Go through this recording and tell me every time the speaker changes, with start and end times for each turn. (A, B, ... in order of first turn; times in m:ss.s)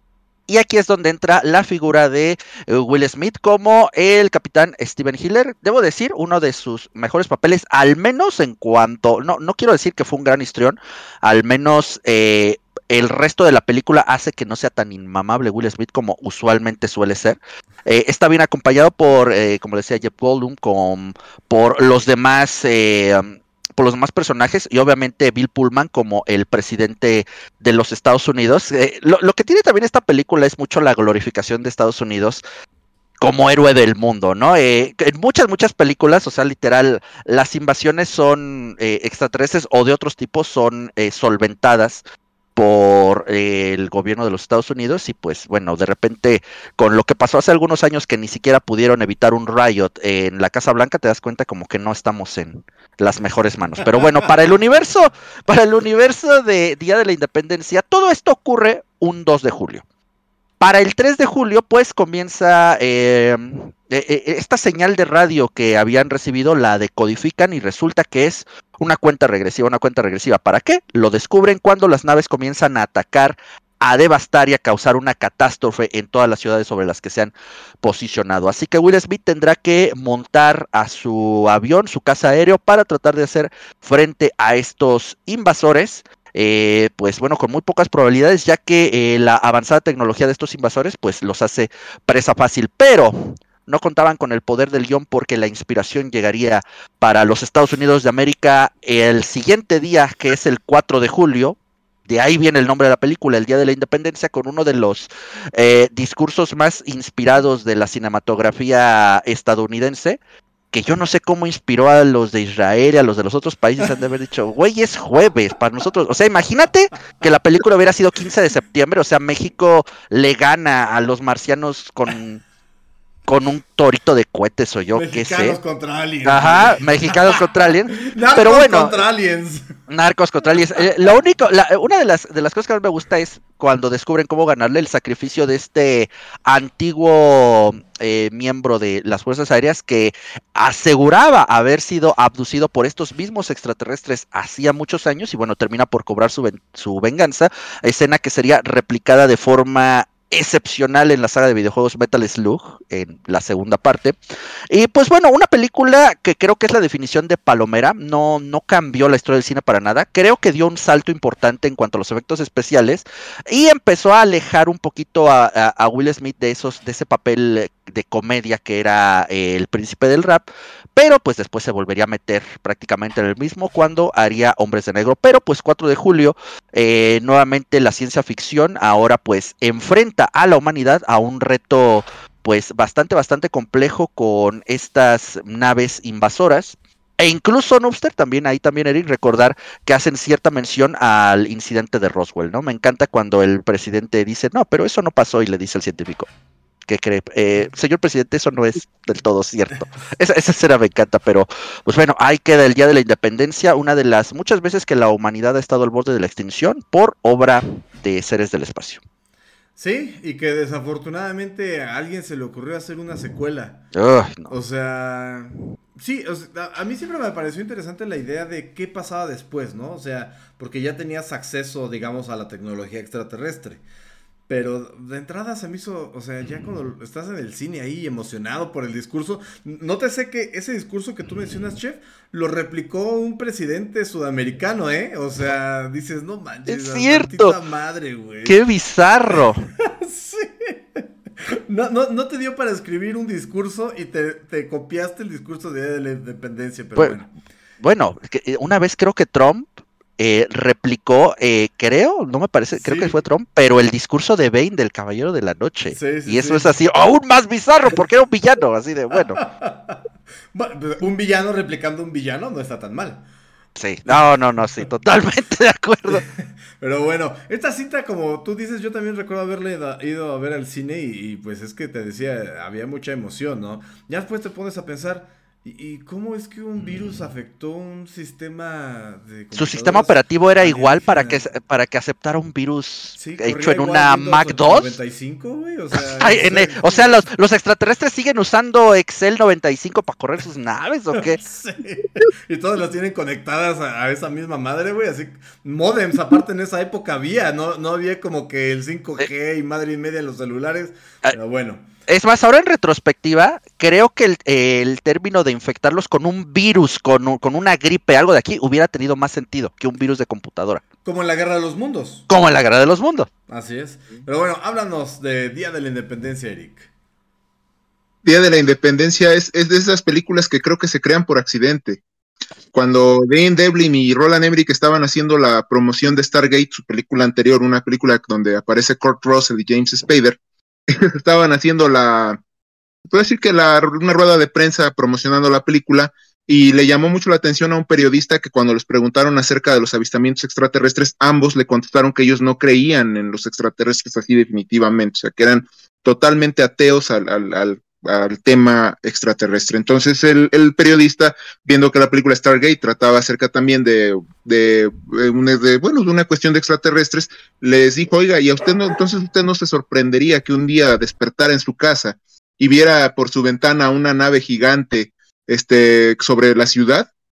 0:00.5-0:32.4 A
0:33.2-0:42.0 A
0:42.6-0:59.8 A
1:00.6-1:50.2 A
1:50.7-2:02.4 A
2:03.3-2:05.6 A
2:04.9-2:09.7 B
2:06.2-2:09.0 A
2:09.9-2:34.2 A
2:34.7-3:16.3 A
3:16.9-3:29.0 A
3:29.8-3:33.9 B
3:34.0-3:34.5 A
3:34.5-3:43.8 B
3:44.5-3:58.6 B
3:56.7-3:57.6 A
3:58.4-3:59.7 A
3:59.7-4:07.3 B
4:07.0-4:07.2 A
4:07.8-4:19.4 A
4:12.7-4:13.2 B
4:15.9-4:16.8 B
4:19.4-4:23.2 B
4:23.8-4:26.2 A
4:26.1-4:41.4 B
4:39.6-4:45.0 A
4:43.2-4:47.2 B
4:46.0-4:51.4 A
4:51.2-5:01.9 B
5:02.1-5:10.8 A
5:11.0-5:12.3 B
5:12.3-5:13.3 A
5:13.5-5:16.9 B
5:18.2-5:22.0 C
5:22.7-5:32.4 C
5:33.1-6:07.1 C